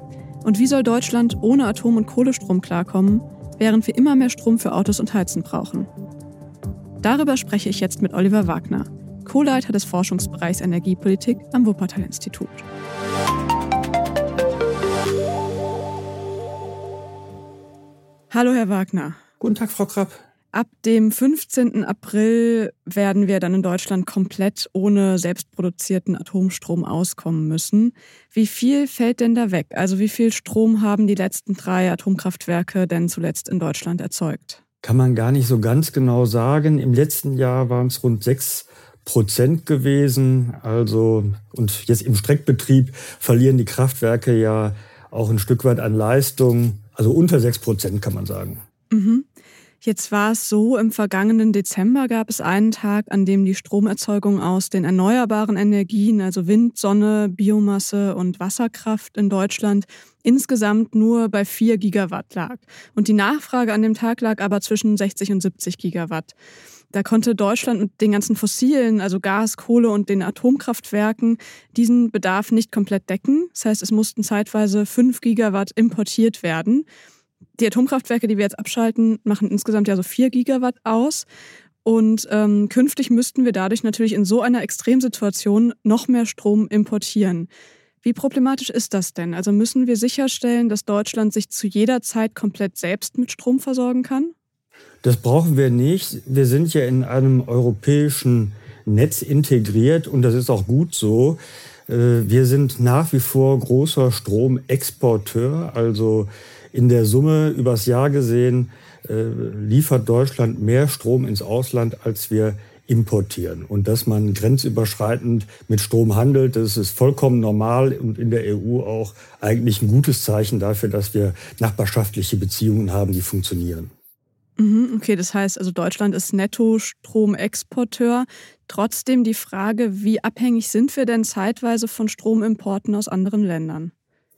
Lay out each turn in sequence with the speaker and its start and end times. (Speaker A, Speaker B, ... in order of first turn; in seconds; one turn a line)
Speaker A: 0.4-5.9
Speaker A: 7.0-12.7
Speaker A: 18.3-19.2
Speaker B: 19.4-20.2
Speaker A: 20.5-34.6
Speaker B: 34.8-48.6
Speaker A: 48.9-49.3
Speaker A: 49.8-66.3
Speaker A: 66.9-76.9
Speaker A: 77.6-81.3
Speaker A: 81.8-87.5
Speaker A: 88.0-94.3
Speaker B: 95.0-123.9
Speaker A: 124.6-133.9